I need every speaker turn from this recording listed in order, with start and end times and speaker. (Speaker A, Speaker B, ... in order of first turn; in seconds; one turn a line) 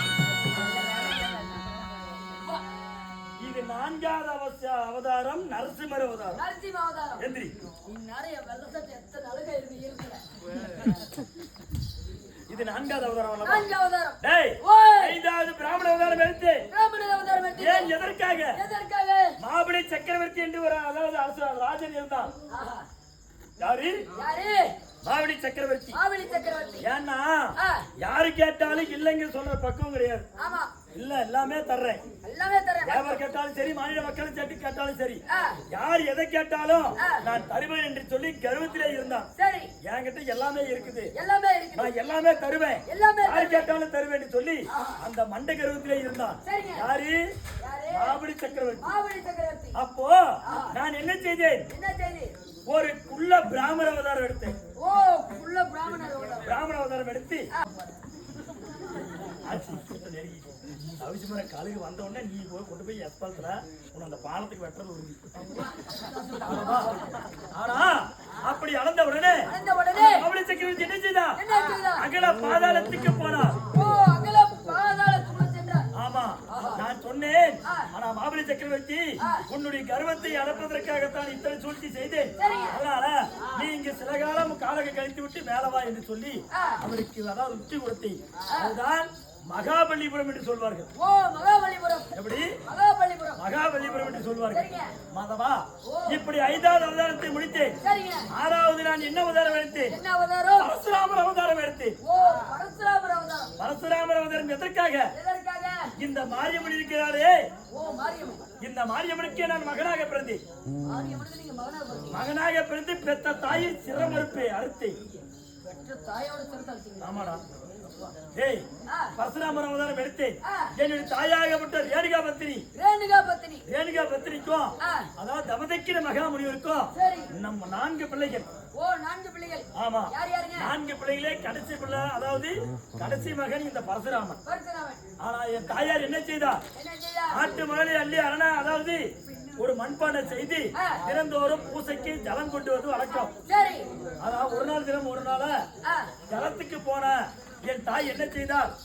Speaker A: 3.4-6.4
Speaker B: 6.4-7.2
Speaker A: 7.2-7.5
Speaker B: 7.9-10.2
Speaker A: 12.5-13.7
Speaker B: 13.4-15.1
Speaker A: 14.2-16.6
Speaker B: 16.7-17.9
Speaker A: 17.6-18.6
Speaker B: 18.6-19.3
Speaker A: 19.4-22.3
Speaker B: 22.5-22.9
Speaker A: 23.6-24.1
Speaker B: 24.1-24.7
Speaker A: 25.1-26.0
Speaker B: 25.9-26.8
Speaker A: 26.8-30.2
Speaker B: 27.6-27.9
Speaker B: 30.4-30.7
Speaker A: 30.9-32.0
Speaker B: 32.2-33.2
Speaker A: 32.9-39.3
Speaker B: 35.3-35.6
Speaker B: 39.4-39.7
Speaker A: 39.8-41.1
Speaker B: 41.1-41.9
Speaker A: 41.8-47.2
Speaker B: 42.9-43.7
Speaker B: 46.5-46.9
Speaker B: 47.6-48.2
Speaker A: 47.9-48.9
Speaker B: 48.8-49.8
Speaker A: 49.8-50.2
Speaker B: 50.5-50.7
Speaker A: 50.7-51.6
Speaker B: 51.7-52.3
Speaker A: 52.7-54.5
Speaker B: 54.8-56.5
Speaker A: 56.5-57.5
Speaker A: 59.5-65.3
Speaker B: 65.6-67.2
Speaker A: 66.5-67.0
Speaker A: 67.5-73.6
Speaker B: 69.5-70.2
Speaker B: 71.4-72.0
Speaker B: 73.7-75.9
Speaker A: 76.0-90.9
Speaker B: 76.5-76.8
Speaker B: 82.4-82.8
Speaker B: 86.5-86.8
Speaker B: 88.5-88.8
Speaker B: 91.0-92.1
Speaker A: 92.2-92.5
Speaker B: 92.6-93.4
Speaker A: 93.4-97.7
Speaker B: 94.5-94.9
Speaker B: 95.9-96.2
Speaker B: 97.8-98.3
Speaker A: 98.3-100.0
Speaker B: 99.9-100.7
Speaker A: 100.6-102.0
Speaker B: 102.0-103.5
Speaker A: 103.6-105.1
Speaker B: 105.2-105.9
Speaker A: 106.0-107.4
Speaker B: 107.7-108.4
Speaker A: 108.6-110.4
Speaker B: 110.9-112.2
Speaker A: 112.1-115.0
Speaker B: 115.7-117.1
Speaker A: 117.0-117.4
Speaker A: 118.3-118.7
Speaker A: 119.2-122.7
Speaker B: 122.8-123.6
Speaker A: 123.7-128.5
Speaker B: 124.8-125.1
Speaker B: 126.9-127.3
Speaker B: 128.8-130.7
Speaker A: 129.8-134.4
Speaker B: 134.5-135.0
Speaker A: 135.2-136.6
Speaker B: 136.8-137.5
Speaker A: 137.3-139.0
Speaker A: 139.6-143.3
Speaker B: 143.1-143.9
Speaker A: 144.2-145.5
Speaker A: 146.3-148.7